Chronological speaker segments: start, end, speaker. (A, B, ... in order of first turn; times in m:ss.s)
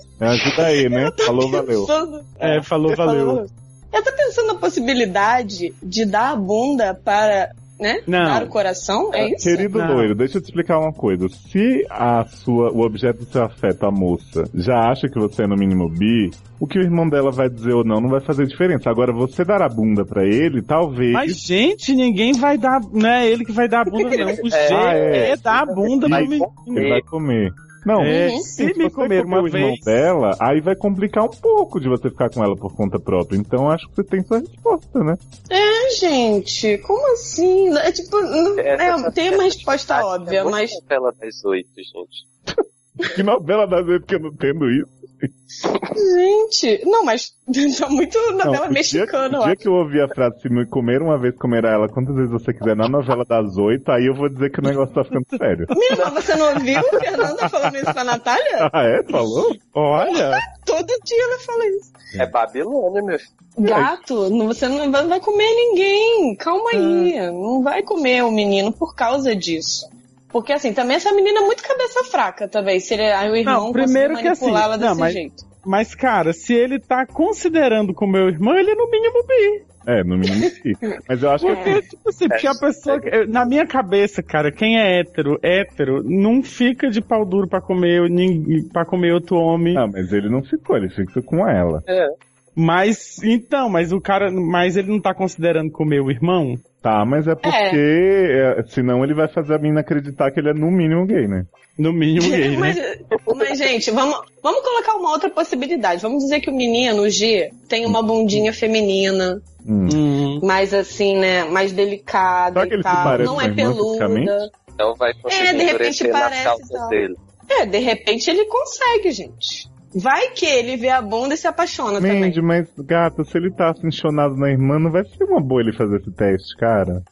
0:00.2-0:01.9 A
0:00.5-0:09.7 B
0:02.4-0:03.4 C
0:08.1-0:08.5 C
0:09.2-0:21.4 A
0:09.7-0:10.1 C
0:21.1-0:27.0 C
0:24.6-0:25.4 A
0:26.0-0:35.2 A
0:28.0-0:30.1 C
0:28.0-0:28.5 B
0:35.5-0:40.8 B
0:38.6-0:42.0 D
0:43.1-0:45.3 A
0:46.0-0:49.6 B
0:48.4-0:55.7 A
0:55.7-0:58.7 B
0:58.6-0:59.5 A
0:59.7-1:00.4 C
1:00.0-1:01.9 B
1:02.2-1:03.2 D
1:03.6-1:15.4 B
1:06.7-1:07.1 C
1:13.4-1:19.6 C
1:19.8-1:21.8 A
1:21.4-1:29.8 C
1:21.5-1:21.8 B
1:29.7-1:31.8 A
1:32.6-1:36.6 C
1:36.8-1:41.5 A
1:37.4-1:37.8 B
1:41.8-1:42.8 C
1:42.2-1:49.4 B
1:49.6-1:50.0 A
1:49.9-1:50.4 C
1:50.4-1:54.5 B
1:52.5-1:54.4 A
1:55.3-2:02.4 B
1:56.0-1:57.1 D
2:02.0-2:07.0 A